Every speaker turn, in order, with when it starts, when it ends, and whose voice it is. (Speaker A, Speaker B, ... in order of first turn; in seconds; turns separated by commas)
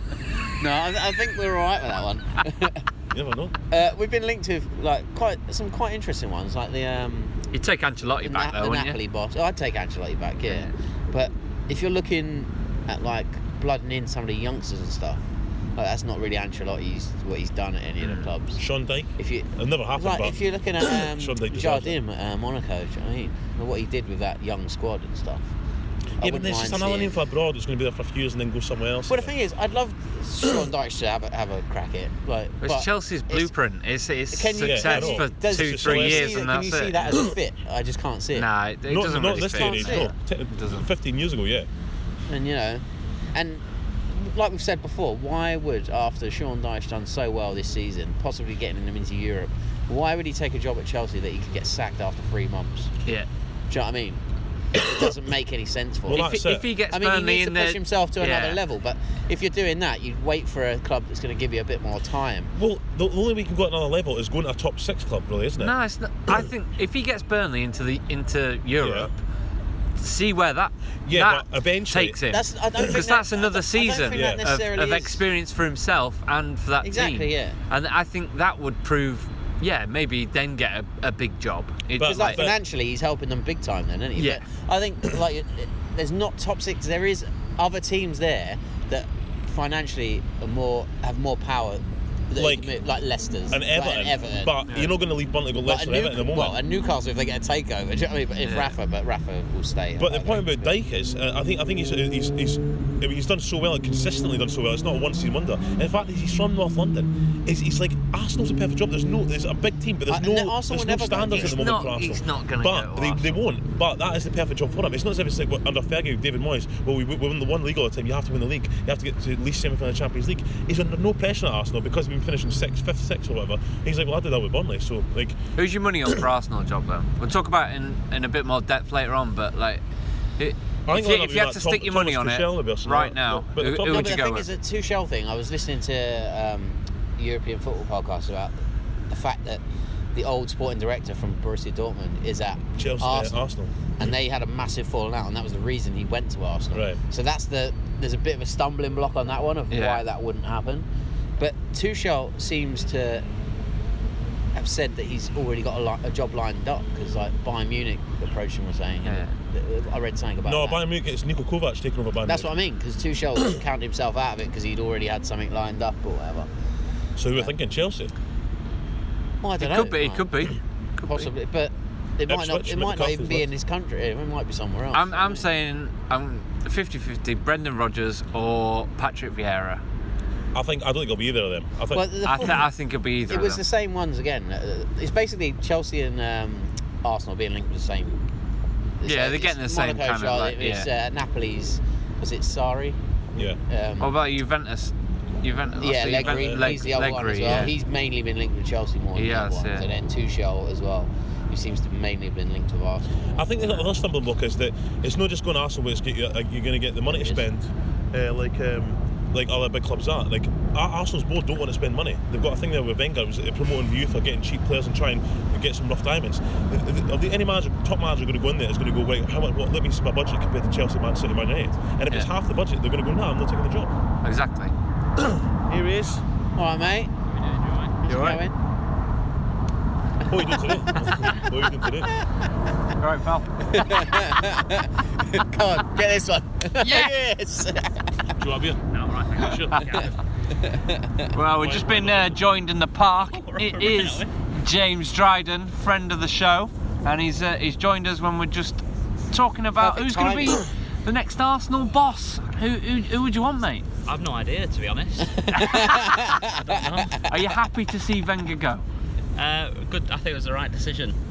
Speaker A: 0.5-2.8, Speaker B: 3.1-3.5, Speaker A: 3.7-7.4, Speaker C: 7.5-9.0, Speaker A: 8.2-15.2, Speaker A: 15.8-18.6, Speaker C: 18.0-18.3, Speaker B: 18.6-22.0, Speaker A: 19.2-25.5, Speaker A: 26.2-27.2, Speaker B: 26.2-29.3, Speaker A: 29.1-33.5, Speaker C: 32.6-37.3, Speaker A: 34.3-38.5, Speaker B: 34.6-36.4, Speaker C: 38.3-40.9, Speaker B: 38.9-41.7, Speaker A: 39.3-40.1, Speaker A: 42.3-52.9, Speaker A: 53.7-54.2, Speaker A: 54.7-56.3, Speaker B: 56.1-56.7, Speaker C: 56.1-58.6, Speaker A: 56.8-62.5, Speaker B: 62.5-65.8, Speaker C: 65.6-69.2, Speaker B: 68.8-69.1, Speaker C: 70.0-82.4, Speaker B: 71.1-72.2, Speaker A: 72.3-75.2, Speaker B: 72.8-73.0, Speaker B: 74.1-74.5, Speaker A: 76.8-77.6, Speaker B: 82.0-82.6, Speaker A: 82.0-94.6, Speaker C: 84.2-84.4, Speaker B: 92.4-92.7, Speaker B: 93.5-96.6, Speaker C: 94.7-95.0, Speaker A: 95.7-100.7, Speaker C: 98.4-98.8, Speaker B: 100.0-125.4, Speaker A: 110.1-111.6, Speaker C: 111.3-113.4, Speaker C: 125.5-129.8, Speaker C: 130.4-134.5, Speaker B: 130.9-134.2, Speaker A: 133.8-139.6, Speaker A: 140.1-143.4, Speaker B: 142.8-144.1, Speaker A: 144.0-150.9, Speaker B: 146.7-147.0, Speaker C: 149.7-150.0, Speaker A: 151.4-153.2, Speaker A: 154.5-160.8, Speaker C: 159.1-159.3, Speaker B: 160.4-162.5, Speaker A: 162.3-166.5, Speaker B: 167.2-168.1, Speaker A: 169.4-170.5, Speaker C: 169.6-171.3, Speaker A: 171.0-175.4, Speaker B: 172.3-173.5, Speaker C: 174.9-179.8, Speaker B: 180.5-182.7, Speaker A: 181.9-182.7, Speaker C: 182.2-183.6, Speaker A: 183.3-188.2, Speaker A: 189.0-193.0, Speaker C: 189.0-190.9, Speaker A: 193.7-194.1, Speaker C: 194.0-197.7, Speaker A: 195.8-203.9, Speaker B: 196.1-197.7, Speaker C: 199.2-199.9, Speaker B: 203.3-223.9, Speaker A: 207.2-207.4, Speaker C: 224.2-224.7, Speaker B: 225.2-226.2, Speaker A: 226.6-227.1, Speaker D: 227.3-228.0, Speaker A: 228.0-228.6, Speaker C: 228.1-228.4, Speaker B: 230.2-232.1, Speaker A: 230.3-231.4, Speaker C: 233.0-233.5, Speaker A: 233.6-238.1, Speaker C: 236.8-237.1, Speaker B: 238.4-238.8, Speaker D: 238.9-240.2, Speaker B: 239.4-240.1, Speaker A: 239.9-241.3, Speaker C: 241.3-253.9, Speaker B: 241.4-242.4, Speaker D: 243.2-244.3, Speaker A: 249.8-250.7, Speaker D: 254.1-255.8, Speaker A: 255.3-257.4, Speaker C: 255.6-255.9, Speaker C: 257.2-258.8, Speaker D: 259.4-261.2